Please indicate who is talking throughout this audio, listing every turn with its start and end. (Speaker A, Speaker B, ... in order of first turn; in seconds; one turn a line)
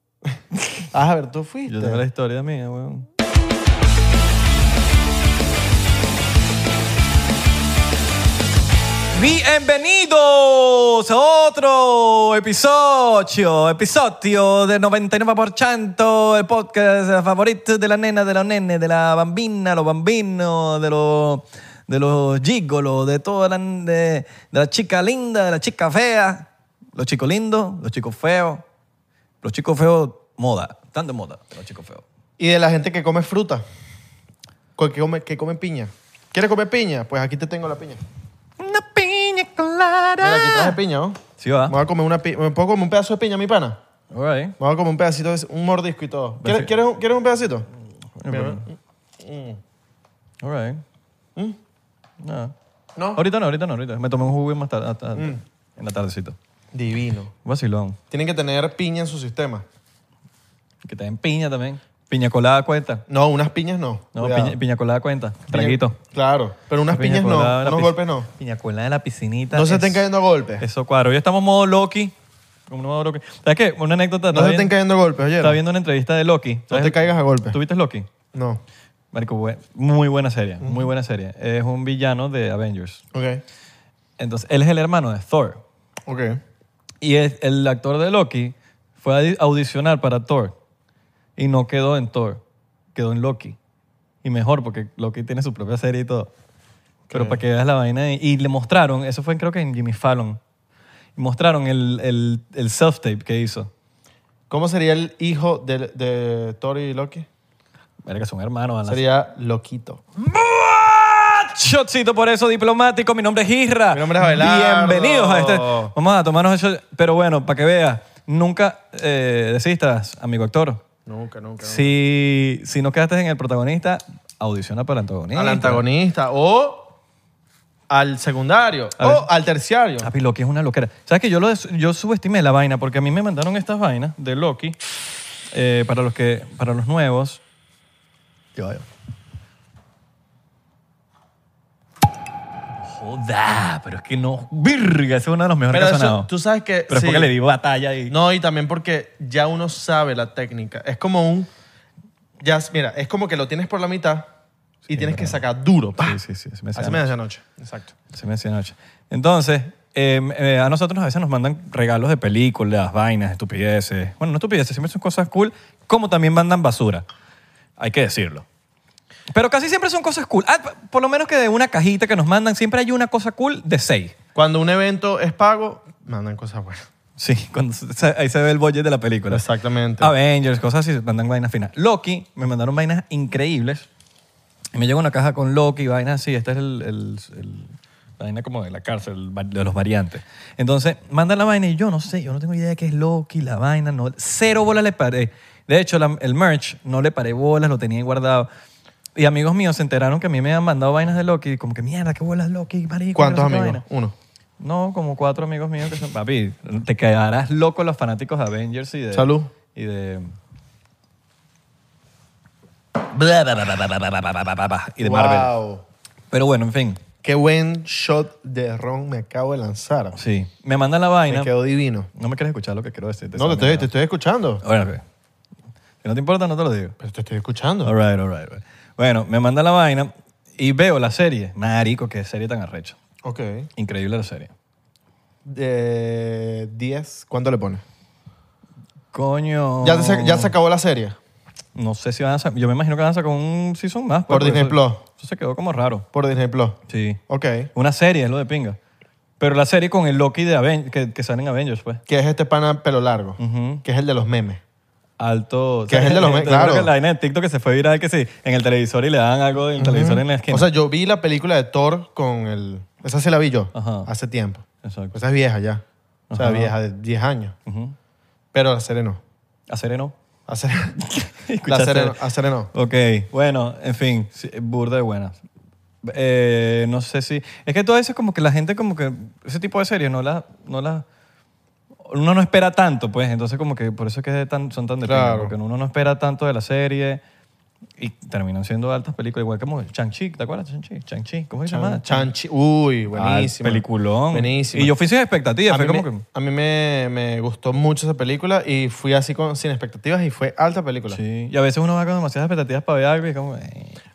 Speaker A: 0.5-0.9
Speaker B: 0.9-2.0
Speaker A: 1.7-3.1
Speaker A: 9.1-28.6
Speaker A: 29.4-32.0
Speaker B: 32.4-33.6
Speaker B: 34.8-38.0
Speaker A: 38.6-40.8
Speaker B: 40.2-43.8
Speaker A: 41.4-41.8
Speaker A: 44.1-44.6
Speaker B: 44.6-47.7
Speaker A: 46.4-46.7
Speaker A: 48.2-48.6
Speaker B: 48.3-49.6
Speaker A: 50.4-50.8
Speaker A: 52.2-52.5
Speaker B: 53.0-53.2
Speaker A: 53.1-56.4
Speaker B: 56.7-57.3
Speaker A: 57.5-58.0
Speaker B: 58.1-59.6
Speaker A: 60.8-63.0
Speaker B: 63.1-64.6
Speaker A: 64.1-66.0
Speaker B: 65.5-68.3
Speaker A: 66.9-70.1
Speaker B: 69.5-70.7
Speaker A: 70.6-72.1
Speaker A: 72.7-74.7
Speaker B: 74.3-75.6
Speaker A: 75.4-78.1
Speaker B: 76.7-77.6
Speaker B: 78.3-78.6
Speaker A: 79.1-83.0
Speaker B: 83.1-83.4
Speaker A: 84.2-85.6
Speaker B: 86.1-86.4
Speaker A: 87.0-90.5
Speaker A: 91.4-92.4
Speaker A: 93.0-93.6
Speaker A: 94.2-96.3
Speaker B: 97.1-97.4
Speaker A: 97.1-100.4
Speaker A: 101.2-103.7
Speaker B: 104.5-107.3
Speaker A: 108.0-109.0
Speaker B: 108.9-110.0
Speaker A: 110.2-120.8
Speaker B: 113.9-115.9
Speaker B: 121.1-121.9
Speaker A: 121.6-125.8
Speaker B: 125.3-126.9
Speaker B: 127.9-130.1
Speaker A: 129.0-129.3
Speaker A: 130.0-134.8
Speaker A: 135.5-137.4
Speaker A: 138.6-138.9
Speaker A: 142.8-146.3
Speaker B: 145.7-147.3
Speaker A: 146.9-148.2
Speaker B: 148.1-151.5
Speaker B: 152.4-154.3
Speaker A: 154.9-155.4
Speaker B: 154.9-156.2
Speaker A: 156.0-157.1
Speaker B: 156.8-157.9
Speaker A: 158.1-167.1
Speaker A: 167.8-168.4
Speaker A: 169.3-174.2
Speaker B: 174.3-176.9
Speaker A: 177.2-179.5
Speaker B: 179.3-180.1
Speaker A: 180.0-183.9
Speaker A: 184.7-198.5
Speaker A: 199.2-203.8
Speaker B: 203.2-204.1
Speaker A: 204.6-210.3
Speaker B: 209.1-209.5
Speaker A: 213.0-215.5
Speaker B: 215.0-215.8
Speaker A: 216.3-217.0
Speaker B: 217.2-220.2
Speaker A: 220.1-221.5
Speaker B: 221.3-222.1
Speaker A: 222.1-223.9
Speaker B: 223.3-224.6
Speaker A: 224.6-225.0
Speaker A: 226.0-226.9
Speaker B: 227.0-227.9
Speaker A: 227.8-233.0
Speaker B: 233.2-233.7
Speaker A: 233.8-234.5
Speaker B: 235.5-237.8
Speaker A: 239.1-240.5
Speaker B: 239.8-241.2
Speaker A: 241.8-246.1
Speaker B: 244.3-245.0
Speaker B: 246.1-246.8
Speaker A: 246.9-247.2
Speaker B: 247.3-247.7
Speaker A: 247.7-248.8
Speaker A: 249.4-252.0
Speaker B: 252.1-254.6
Speaker A: 253.4-253.8
Speaker A: 255.2-260.7
Speaker B: 255.9-256.9
Speaker B: 259.8-265.8
Speaker A: 263.7-264.1
Speaker A: 264.8-265.1
Speaker A: 266.3-266.7
Speaker B: 266.3-267.6
Speaker A: 267.7-267.9
Speaker B: 268.5-269.2
Speaker A: 269.7-270.1
Speaker B: 270.5-271.0
Speaker A: 271.0-272.2
Speaker B: 271.7-272.7
Speaker A: 272.7-275.4
Speaker A: 276.0-281.1
Speaker A: 282.1-287.2
Speaker B: 285.1-285.5
Speaker A: 288.0-292.3
Speaker B: 291.7-294.9
Speaker A: 293.1-296.2
Speaker B: 295.7-301.2
Speaker A: 301.1-304.0